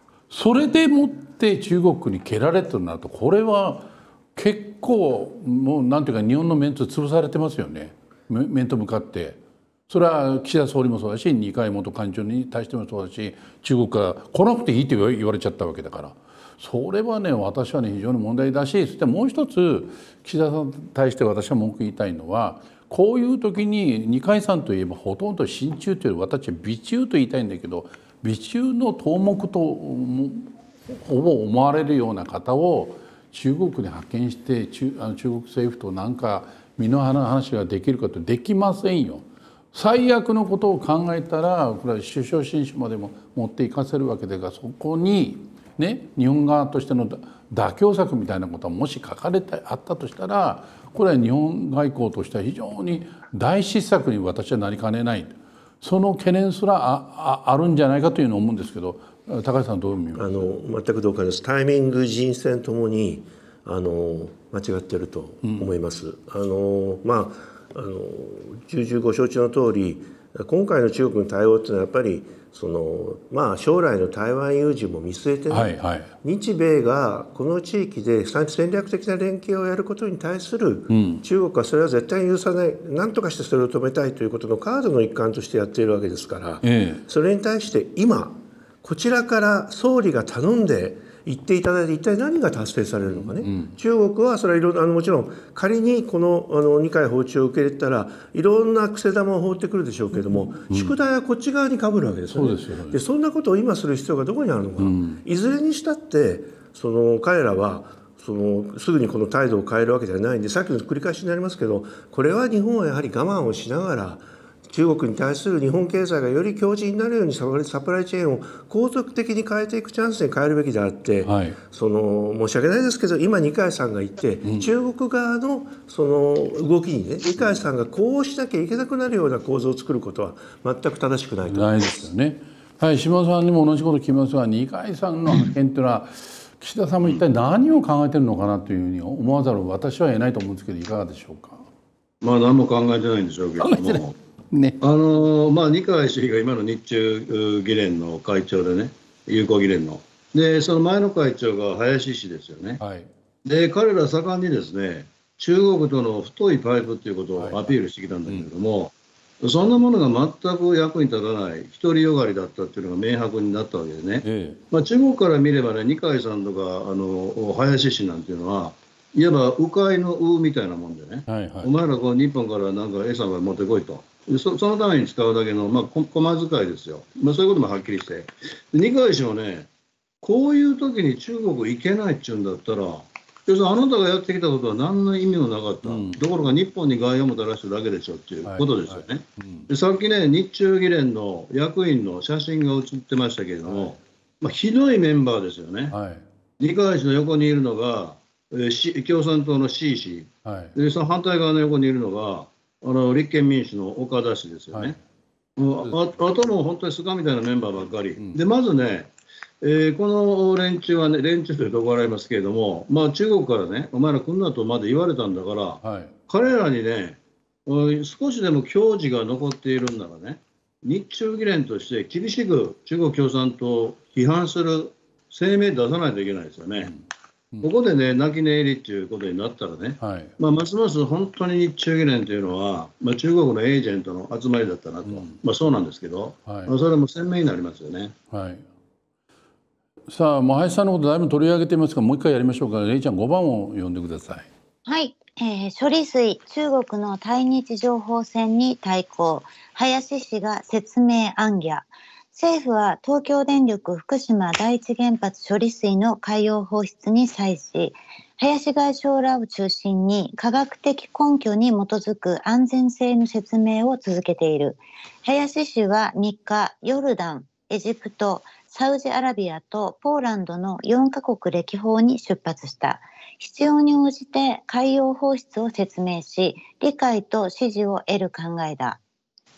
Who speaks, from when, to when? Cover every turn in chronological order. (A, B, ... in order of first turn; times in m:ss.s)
0:00.3-1:00.6 A
1:00.1-2:12.1 B
1:05.4-1:05.7 A
1:15.5-1:16.1 A
1:20.9-1:21.2 A
1:26.6-1:27.0 A
1:33.2-1:33.7 A
1:40.3-1:40.9 A
1:42.3-1:43.0 A
1:44.8-1:45.2 A
2:01.2-2:01.6 A
2:04.4-2:04.7 A
2:11.5-2:21.6 A
2:22.2-2:24.1 C
2:23.6-2:24.8 A
2:24.8-2:32.8 C
2:32.8-2:33.1 A
2:33.4-2:59.7 C
2:37.4-2:37.8 A
2:44.2-2:44.6 A
2:51.3-2:51.7 A
3:00.2-3:16.0 C
3:05.8-3:06.2 A
3:08.4-3:09.7 A
3:13.7-3:14.0 A
3:15.9-3:16.2 A
3:16.6-3:25.0 C
3:20.4-3:20.8 A
3:24.7-3:25.0 A
3:25.6-3:29.1 C
3:29.6-3:46.9 C
3:35.8-3:36.1 A
3:46.8-3:47.7 A
3:47.6-3:58.1 C
3:50.0-3:50.3 A
3:55.0-3:55.4 A
3:56.5-3:56.7 A
3:58.3-3:58.6 A
4:00.1-4:04.5 A
4:04.8-4:39.0 D